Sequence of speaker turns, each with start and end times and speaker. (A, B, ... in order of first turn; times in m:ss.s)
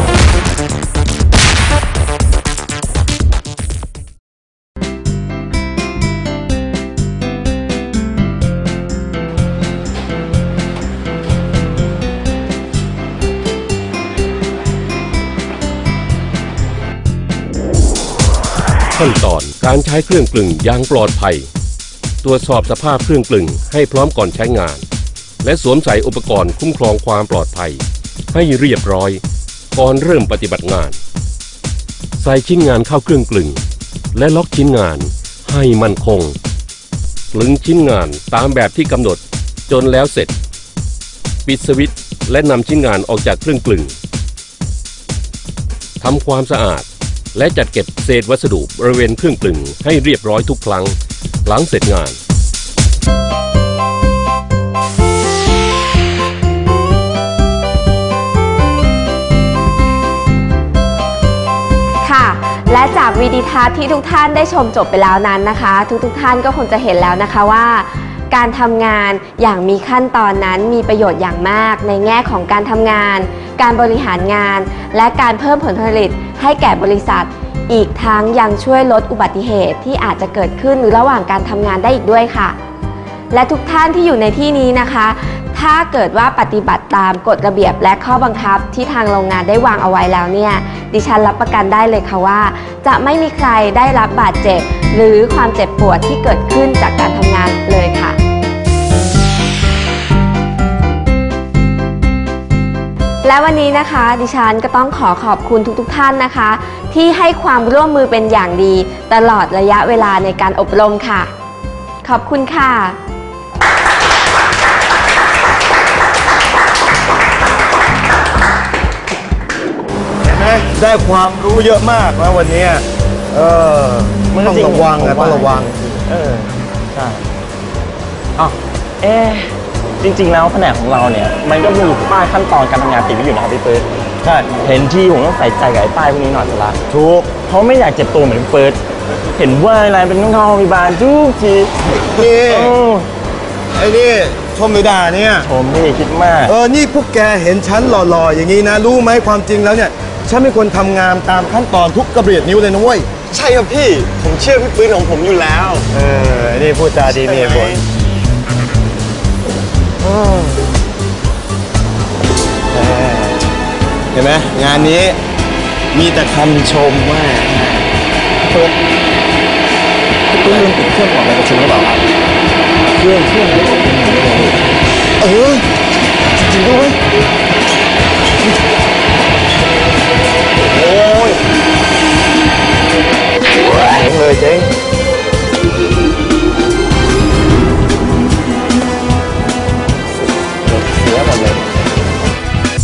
0:19.0-0:21.5 A
0:22.2-0:24.8 A
0:25.4-0:29.2 A
0:29.7-0:31.0 A
0:32.2-0:33.6 A
0:34.1-0:36.4 A
0:37.3-0:40.3 A
0:41.4-0:44.0 A
0:46.0-0:52.2 A
1:02.0-1:22.6 B
1:23.3-1:38.2 B
1:43.2-1:51.3 B
1:52.0-1:53.0 B
2:00.2-2:05.9 C
2:04.3-2:07.3 D
2:08.4-2:13.9 D
2:14.2-2:14.5 C
2:14.6-2:16.8 D
2:16.9-2:17.4 C
2:17.4-2:18.8 D
2:19.4-2:23.1 D
2:22.0-2:22.8 C
2:23.7-2:25.5 C
2:25.4-2:26.5 D
2:26.4-2:33.3 C
2:33.3-2:35.8 D
2:35.9-2:37.8 C
2:37.3-2:37.8 D
2:42.7-2:43.4 C
2:44.1-2:45.2 C
2:45.9-2:47.6 C
2:50.3-2:52.0 D
2:50.4-2:50.7 C
2:53.0-2:54.6 D
2:55.2-2:55.6 C
2:56.6-2:56.8 D
2:56.6-2:56.9 C
3:00.6-3:01.3 C
3:03.8-3:04.7 C
3:10.9-3:11.6 D